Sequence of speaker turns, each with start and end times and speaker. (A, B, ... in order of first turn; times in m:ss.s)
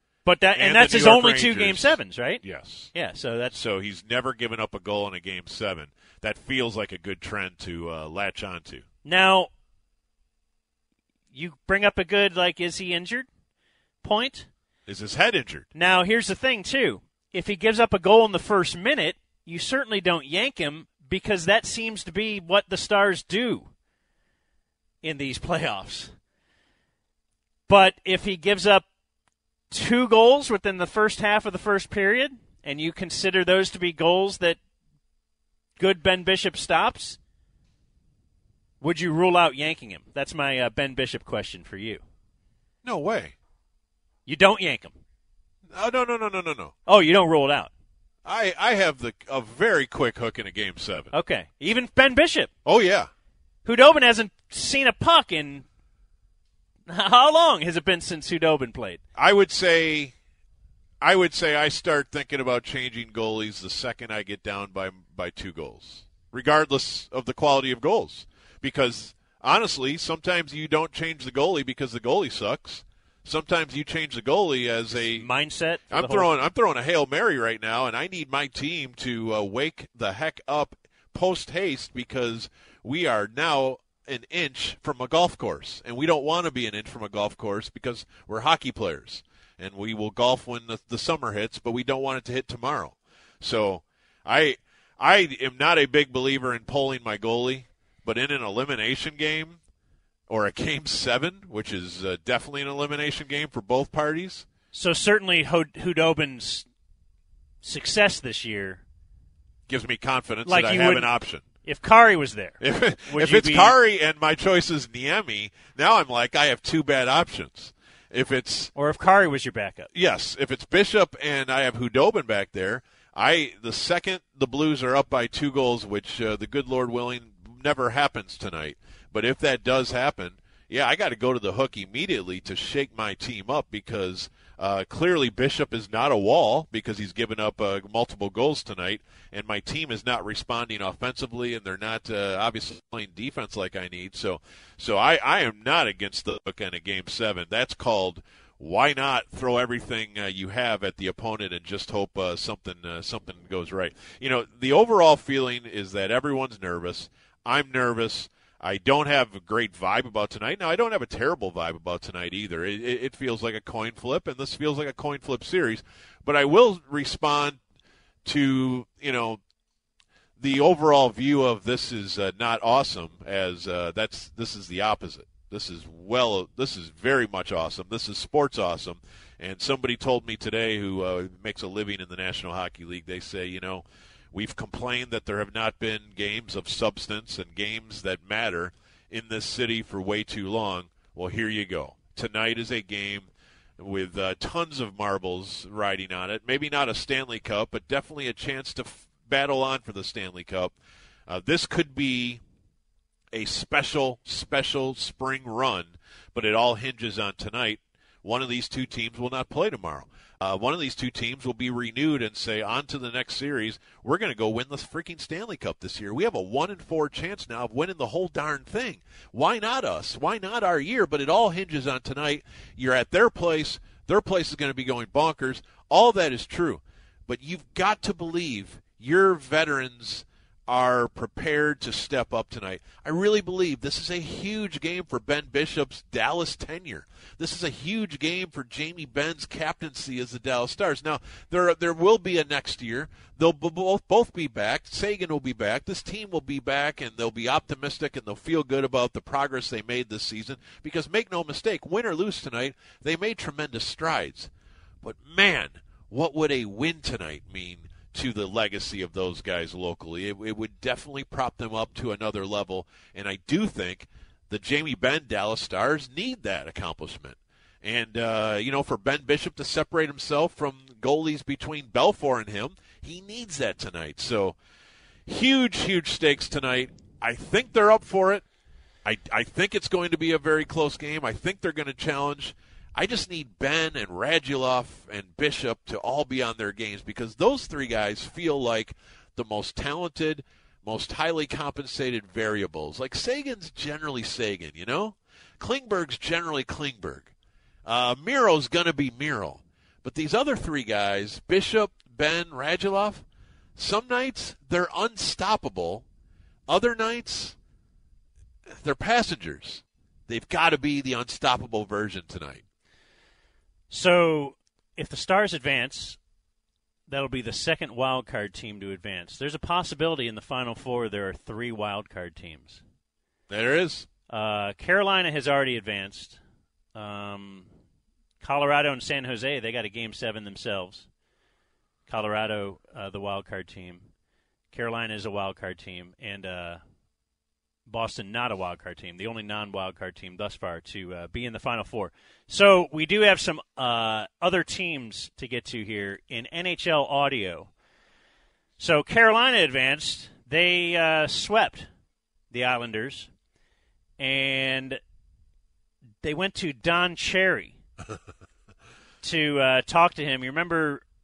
0:00.2-0:02.4 A
0:00.6-0:02.9 B
0:02.9-0:03.6 A
0:03.5-0:08.8 B
0:09.0-0:09.5 A
0:11.3-0:13.3 A
0:14.0-0:14.5 A
0:14.9-0:15.7 B
0:15.7-0:23.7 A
0:25.0-0:26.1 A
0:27.7-0:28.8 A
0:29.7-0:34.6 A
0:35.8-0:37.2 A
0:38.8-0:42.0 A
0:42.8-0:43.3 B
0:44.2-0:45.0 A
0:45.7-0:46.7 B
0:46.9-0:47.7 A
0:48.2-0:51.1 B
0:51.1-0:52.5 A
0:52.6-0:53.1 B
0:53.6-0:55.6 A
0:56.9-0:59.0 A
0:59.2-1:00.1 B
1:01.0-1:15.3 B
1:15.2-1:16.3 A
1:15.9-1:39.6 B
1:40.3-1:44.4 B
1:44.7-1:46.6 A
1:47.6-1:48.8 A
1:49.7-1:51.4 B
1:50.4-1:51.1 A
1:51.6-1:53.7 A
1:52.6-1:58.7 B
1:58.7-1:59.9 A
1:59.9-2:47.6 B
2:48.2-2:49.4 B
2:50.4-3:13.3 B
3:13.8-3:20.7 B
3:21.3-3:22.4 B
3:23.3-4:14.5 B
4:15.0-4:34.6 B
4:35.3-4:38.4 B
4:39.0-4:57.3 B
4:57.8-5:03.2 B
5:03.8-5:06.0 B
5:06.7-5:07.5 B
5:08.8-5:12.6 B
5:13.9-5:16.2 A
5:17.1-5:22.8 A
5:23.5-5:24.1 B
5:24.3-5:26.4 A
5:26.9-5:27.7 A
5:28.4-5:31.0 A
5:32.1-5:34.0 A
5:34.7-5:36.8 A
5:37.9-5:47.7 A
5:48.8-5:51.9 A
5:52.5-5:53.3 A
5:54.2-5:55.0 A
5:56.2-5:57.8 A
5:59.2-6:01.0 A